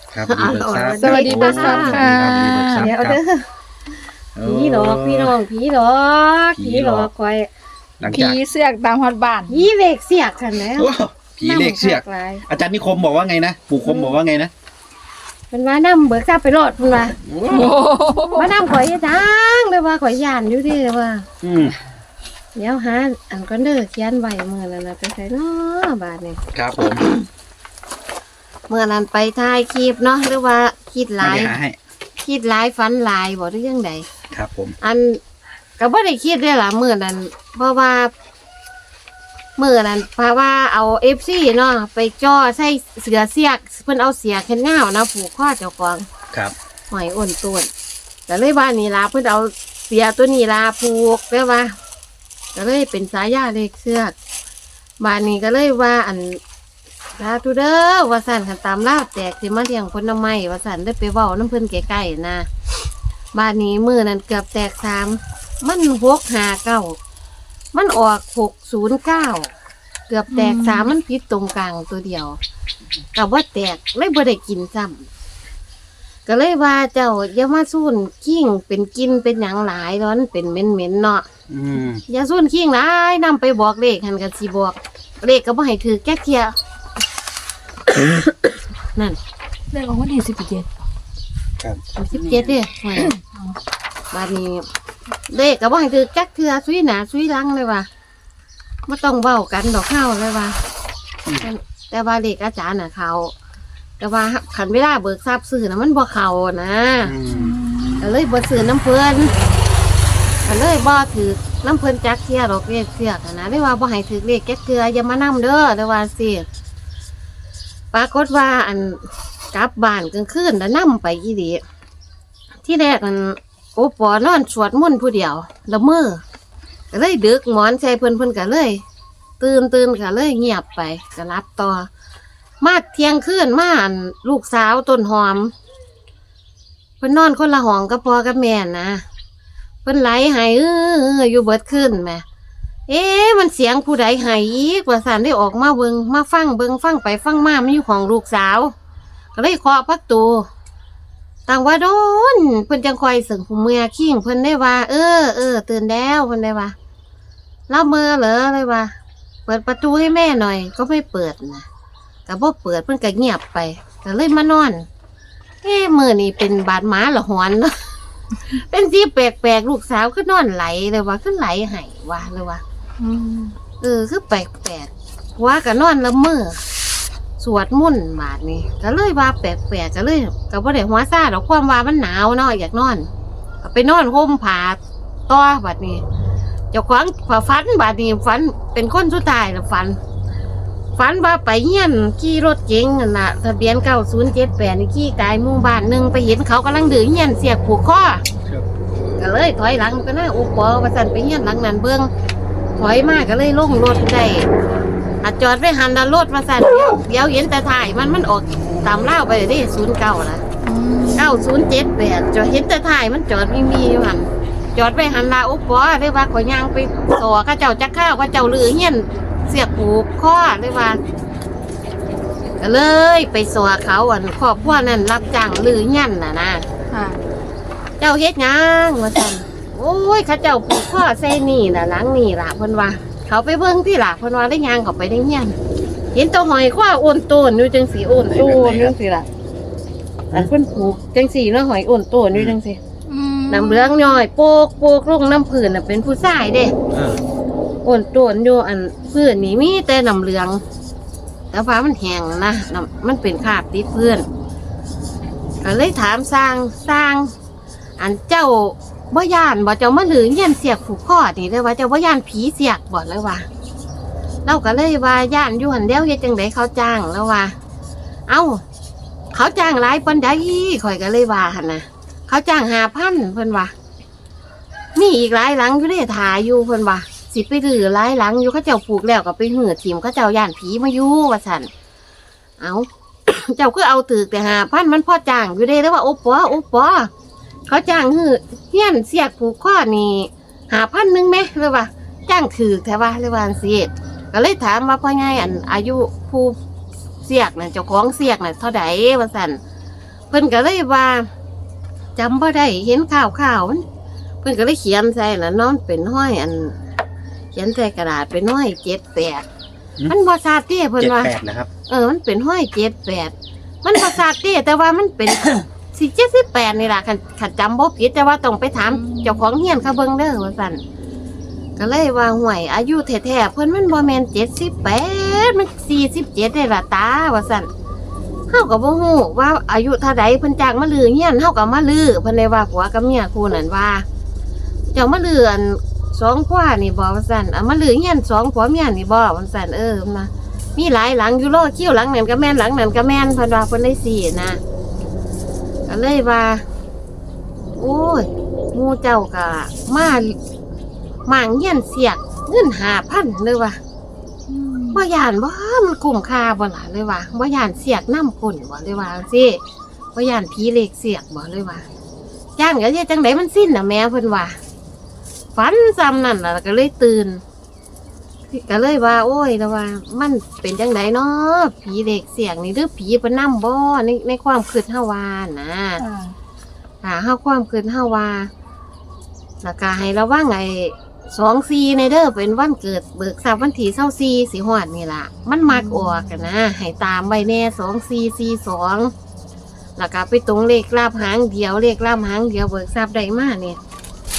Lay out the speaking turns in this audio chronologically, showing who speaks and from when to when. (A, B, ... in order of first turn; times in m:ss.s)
0:00.1-0:03.2 A
0:00.3-0:03.5 B
0:00.9-0:02.9 C
0:04.4-0:05.3 A
0:04.4-0:07.5 B
0:06.6-0:07.1 A
0:08.0-0:08.4 A
0:08.1-0:09.6 C
0:09.5-0:10.9 B
0:10.8-0:14.5 A
0:11.4-0:12.4 B
0:13.8-0:14.2 B
0:15.5-0:17.2 B
0:17.2-0:17.8 A
0:17.5-0:18.5 C
0:18.3-0:21.2 B
0:21.4-0:21.8 A
0:22.6-0:26.4 B
0:26.5-0:27.0 A
0:28.7-0:31.6 B
0:31.2-0:31.8 A
0:32.2-0:34.0 B
0:34.3-0:34.8 A
0:34.8-0:35.2 B
0:35.8-0:38.1 B
0:39.6-0:46.1 B
0:46.9-0:47.7 B
0:48.3-0:51.7 B
0:52.6-0:54.1 B
0:55.0-0:56.4 B
0:57.2-1:02.5 B
1:03.3-1:07.0 B
1:07.7-1:09.5 B
1:10.1-1:12.4 B
1:10.3-1:10.9 C
1:13.1-1:15.1 B
1:16.3-1:21.3 B
1:21.5-1:22.0 A
1:22.1-1:26.5 B
1:29.7-1:30.7 C
1:32.0-1:33.2 B
1:34.1-1:34.7 B
1:35.3-1:37.9 B
1:38.9-1:40.6 B
1:41.4-1:43.3 B
1:44.0-1:47.2 B
1:47.0-1:47.6 A
1:47.3-1:48.0 C
1:48.0-1:49.3 B
1:50.4-1:56.4 B
1:57.9-2:01.6 B
2:02.6-2:06.2 B
2:06.9-2:08.8 B
2:09.4-2:11.9 B
2:12.6-2:15.5 B
2:17.0-2:19.0 B
2:19.8-2:22.2 B
2:22.9-2:28.7 B
2:29.4-2:30.5 B
2:31.5-2:36.8 B
2:37.7-2:38.9 B
2:39.5-2:41.7 B
2:42.3-2:44.9 B
2:45.6-2:47.8 B
2:48.5-2:52.6 B
2:53.0-2:53.6 C
2:53.8-2:56.6 B
2:57.4-3:03.1 B
3:03.6-3:06.0 B
3:06.7-3:10.0 B
3:11.0-3:18.2 B
3:18.4-3:18.9 A
3:19.2-3:22.1 B
3:22.8-3:24.5 B
3:25.2-3:30.4 B
3:30.6-3:31.4 C
3:31.2-3:41.0 B
3:42.6-3:46.6 B
3:46.9-3:47.2 C
3:48.0-3:55.6 B
3:56.1-3:59.3 B
3:58.3-3:59.0 A
4:00.3-4:02.8 B
4:03.1-4:04.2 C
4:03.5-4:06.7 B
4:06.9-4:07.2 A
4:07.8-4:10.6 B
4:11.5-4:14.3 B
4:15.6-4:17.3 B
4:18.0-4:23.5 B
4:24.5-4:27.6 B
4:28.3-4:28.6 B
4:29.3-4:33.7 B
4:35.0-4:41.7 B
4:42.6-4:47.1 B
4:47.7-4:56.6 B
4:57.2-4:59.6 B
5:00.3-5:01.3 B
5:02.2-5:03.8 B
5:04.4-5:06.8 B
5:07.5-5:09.4 B
5:10.1-5:11.3 B
5:11.0-5:11.7 A
5:11.9-5:13.3 B
5:13.8-5:20.8 B
5:18.9-5:19.4 C
5:21.8-5:27.7 B
5:28.5-5:34.0 B
5:34.9-5:44.6 B
5:45.9-5:46.6 B
5:47.8-5:50.4 B
5:51.3-5:53.8 B
5:54.5-5:55.0 C
5:54.9-5:59.6 B
6:00.2-6:01.8 B
6:02.6-6:04.6 B
6:05.6-6:07.4 B
6:08.5-6:16.0 B
6:16.0-6:16.3 C
6:17.0-6:18.5 B
6:19.6-6:29.1 B
6:25.7-6:26.2 C
6:30.0-6:33.8 B